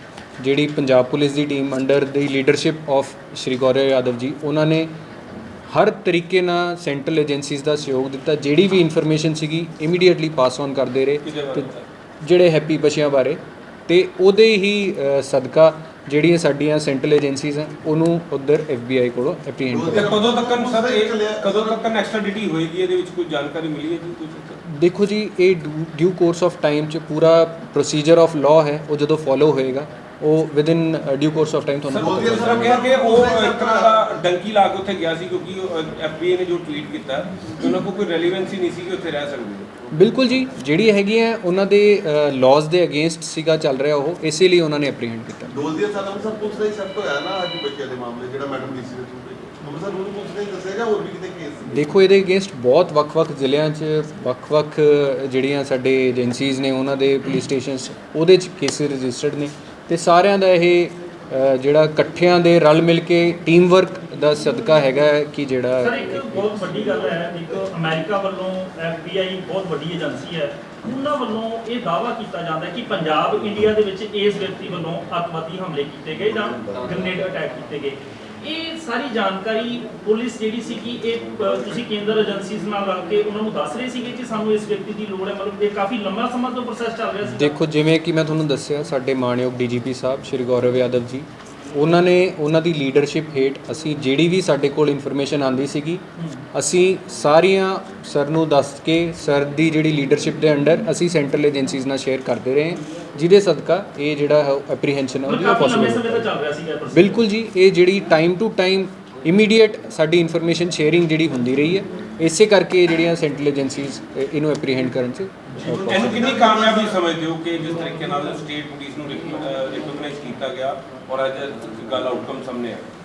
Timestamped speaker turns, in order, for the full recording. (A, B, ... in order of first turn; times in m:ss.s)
0:00.4-0:04.9 A
0:05.7-0:11.7 A
0:11.2-0:11.9 B
0:12.2-0:20.2 A
0:19.6-0:21.9 C
0:19.9-0:24.6 B
0:24.6-0:32.8 A
0:31.9-0:39.8 B
0:31.9-0:34.2 C
0:39.9-0:45.5 A
0:45.5-0:51.8 C
0:51.7-1:06.7 A
1:05.8-1:27.5 D
1:27.2-1:46.3 A
1:36.2-1:36.4 D
1:45.2-1:47.2 D
1:46.9-1:56.3 A
1:55.5-1:56.9 D
1:55.8-2:02.9 B